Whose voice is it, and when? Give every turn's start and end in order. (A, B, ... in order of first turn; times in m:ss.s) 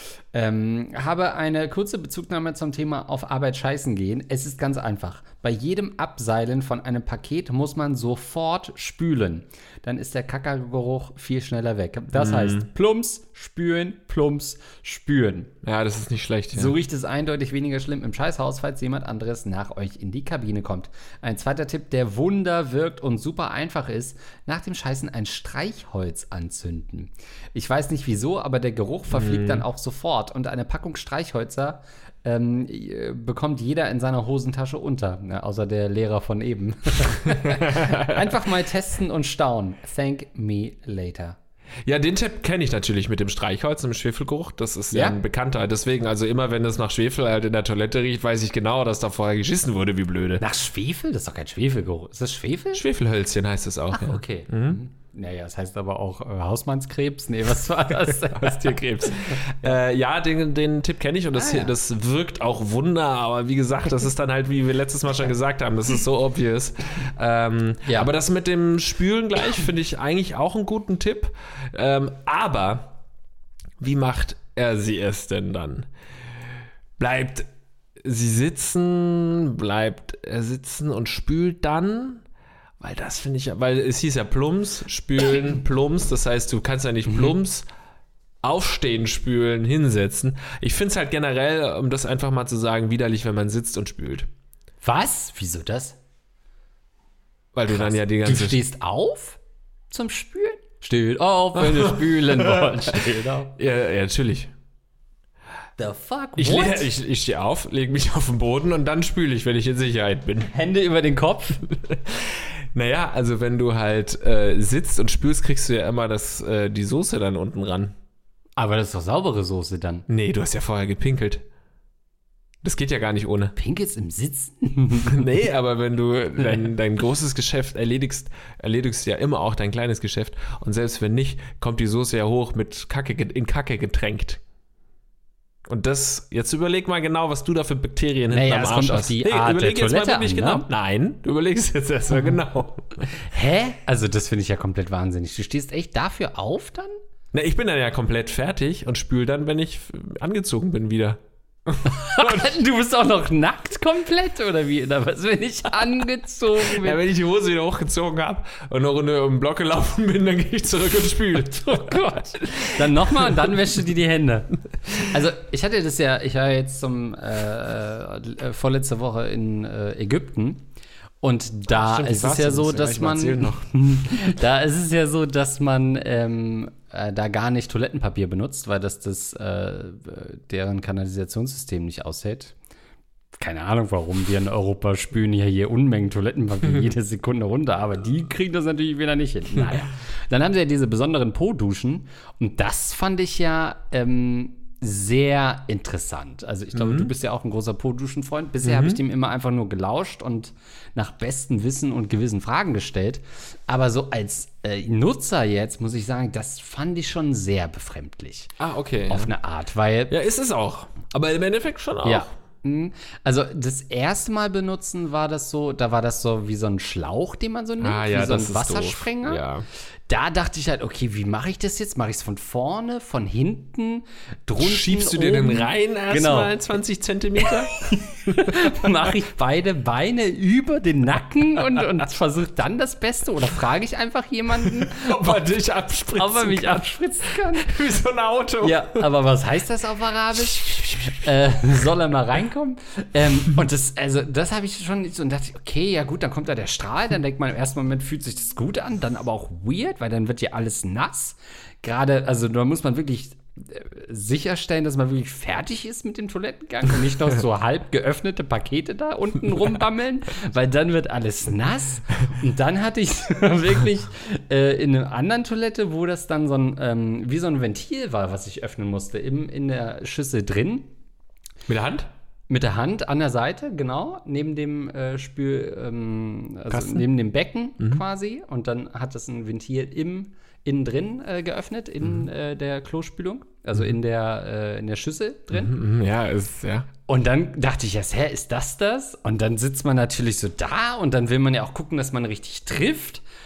0:00.3-0:15.5 A
0:12.1-0:12.6 B
0:15.6-0:16.7 B
0:16.5-0:41.4 A
0:29.1-0:29.6 B
0:37.5-0:38.2 B
0:41.8-0:50.4 B
0:44.9-0:45.2 A
0:50.4-0:52.8 A
0:52.7-0:54.8 B
0:53.9-0:59.7 A
0:58.2-1:12.9 B
1:01.4-1:01.7 A
1:07.9-1:08.1 A
1:13.8-1:15.9 B
1:17.0-1:17.5 B
1:18.0-1:22.2 B
1:22.8-1:27.6 B
1:28.4-1:34.3 B
1:34.8-1:36.0 A
1:37.5-1:38.6 B
1:37.7-1:43.5 A
1:41.6-1:42.8 B
1:43.6-1:44.5 B
1:45.8-1:46.9 A
1:46.4-1:50.5 B
1:50.5-1:51.6 A
1:51.7-1:58.0 B
1:58.6-2:00.1 A
2:00.1-2:01.4 B
2:02.6-2:03.6 B
2:03.6-2:05.3 A
2:05.1-2:14.4 B
2:15.7-2:23.2 B
2:18.3-2:20.7 A
2:23.3-2:27.0 A
2:27.3-2:32.5 B
2:31.8-2:37.0 A
2:36.6-2:43.4 B
2:41.5-2:50.6 A
2:51.2-3:02.6 A
2:51.7-2:54.3 B
3:03.4-3:28.6 A
3:16.8-3:17.1 B
3:18.6-3:19.0 B
3:28.6-3:29.3 B
3:29.1-3:30.1 A
3:30.1-3:32.3 B
3:32.0-3:39.4 A
3:37.8-3:39.6 B
3:40.1-3:46.5 A
3:44.6-3:48.7 B
3:47.9-3:55.4 A
3:54.8-3:56.8 B
3:56.2-3:57.7 A
3:57.6-3:59.1 B
3:58.6-4:30.9 A
4:00.5-4:01.3 B
4:31.7-4:32.1 B
4:32.5-4:45.8 A
4:36.8-4:37.0 B
4:45.5-4:46.9 B
4:47.1-4:53.2 A